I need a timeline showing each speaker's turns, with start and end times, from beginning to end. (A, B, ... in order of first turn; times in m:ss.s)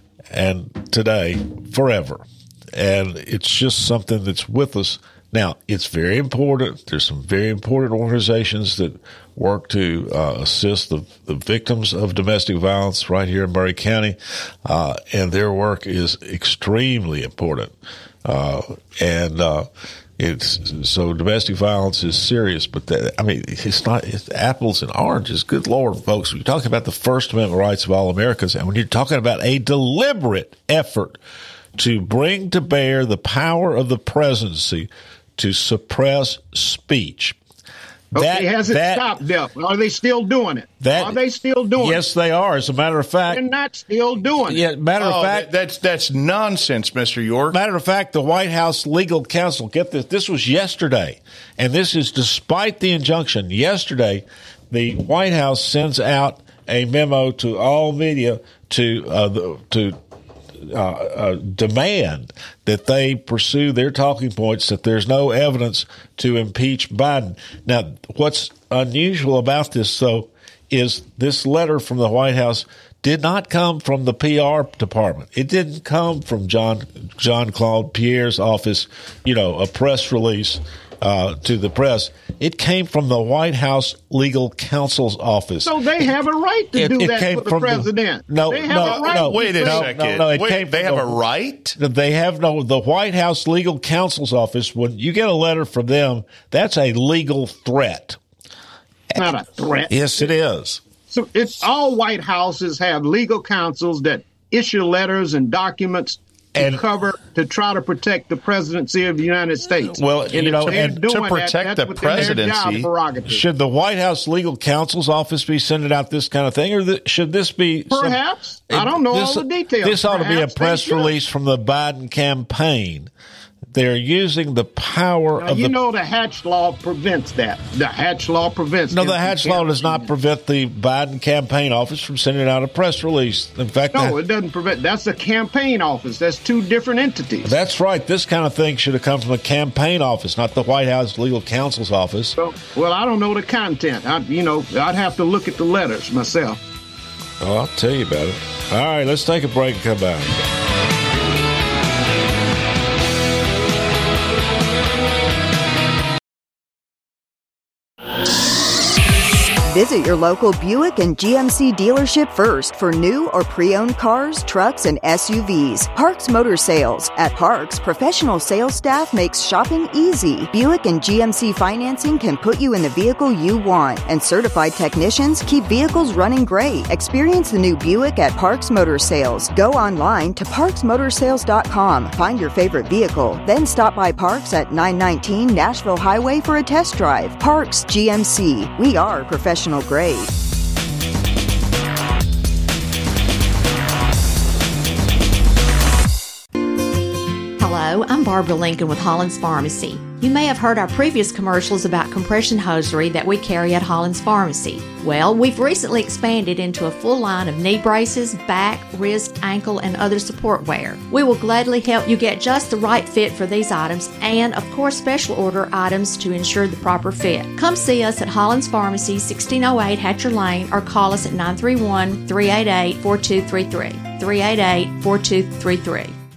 0:00.3-0:17.7 A
0:18.2-0:31.2 A
0:31.8-0:37.4 A
0:38.1-0:39.1 A
0:38.1-0:42.0 B
0:40.8-0:41.2 A
0:41.8-0:43.4 A
0:43.3-0:44.6 B
0:44.4-0:45.5 A
0:45.0-0:47.6 C
0:47.5-1:00.0 A
1:00.6-1:26.0 A
1:25.6-1:29.9 B
1:26.8-1:31.2 A
1:28.7-1:31.8 C
1:31.8-1:38.2 A
1:39.2-1:40.2 B
1:39.9-1:40.8 A
1:41.1-1:53.4 B
1:46.6-1:46.8 A
1:49.9-1:51.0 A
1:50.7-1:52.9 C
1:53.3-1:58.2 A
1:57.9-2:01.1 B
1:58.7-2:03.1 A
2:03.7-2:05.7 A
2:05.4-2:10.1 B
2:08.9-2:14.2 A
2:13.9-2:17.5 B
2:17.4-2:22.4 A
2:22.4-2:26.6 B
2:27.4-2:30.4 A
2:39.6-3:10.3 D
3:17.6-3:46.1 E